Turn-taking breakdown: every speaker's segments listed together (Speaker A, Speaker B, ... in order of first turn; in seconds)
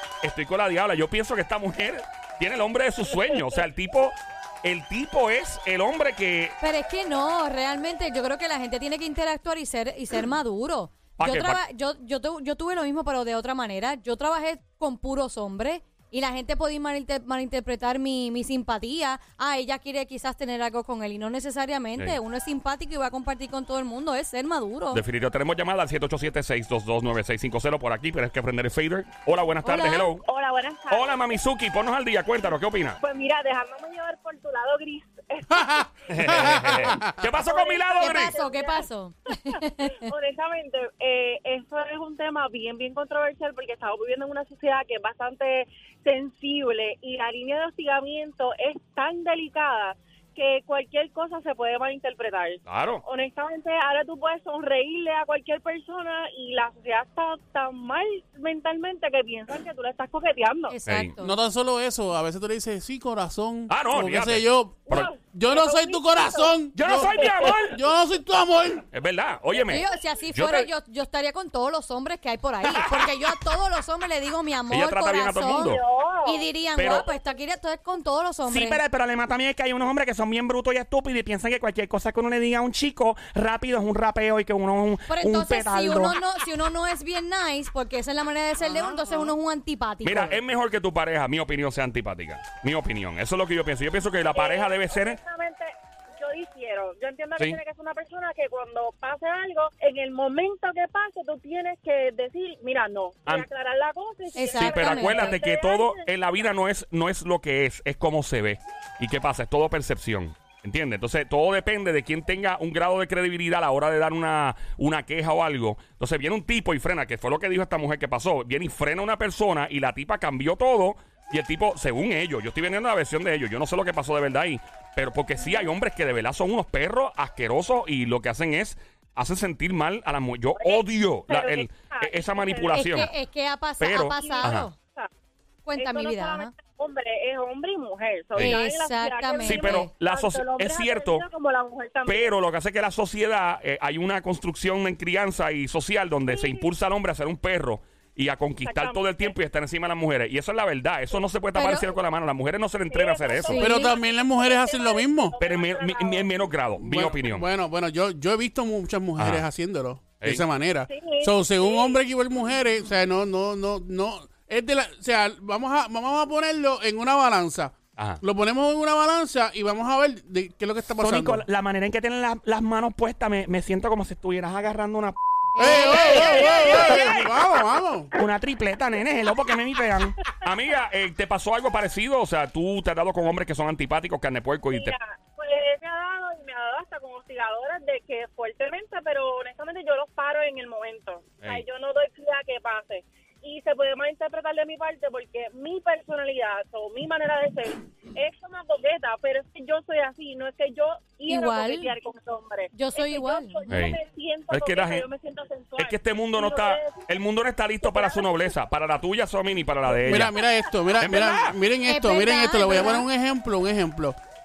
Speaker A: 0.2-6.6, 11.2-11.6, 24.9-30.2, 30.9-33.0, 36.1-38.4, 52.6-53.0, 60.9-61.1, 63.7-65.1, 66.7-67.8, 68.9-70.7, 72.7-72.9, 74.7-75.8, 76.8-77.0, 90.0-95.2, 104.5-133.1, 133.8-134.7, 139.4-141.2, 142.1-153.7, 155.4-157.5, 159.2-159.4, 168.0-168.2, 176.1-177.1, 180.4-184.9, 203.7-204.0, 204.5-205.0, 205.8-210.3, 211.0-211.6
Speaker B: 6.6-25.0, 29.6-30.1, 38.0-40.1, 60.7-61.4, 69.7-78.8, 85.1-90.4, 104.3-105.4, 132.7-134.8, 135.7-136.5, 138.3-139.9, 151.5-151.9, 153.5-153.9, 175.5-176.4, 201.3-201.9, 202.7-203.6, 211.8-213.1
Speaker C: 30.2-31.4, 33.0-36.3, 37.3-38.9, 39.5-60.7, 64.9-67.3, 94.3-106.5, 125.4-125.7, 130.6-133.1, 134.1-135.1, 135.8-142.3, 146.3-146.7, 148.6-149.4, 152.9-156.4, 160.9-162.0, 176.2-177.1, 184.7-207.1, 207.8-208.5, 210.1-210.7
Speaker D: 35.5-37.2, 61.2-68.8, 88.7-89.2, 153.6-155.3, 156.8-171.4, 175.6-178.1, 210.1-214.2
Speaker E: 78.5-86.1, 171.0-175.2, 176.0-176.9, 178.2-180.1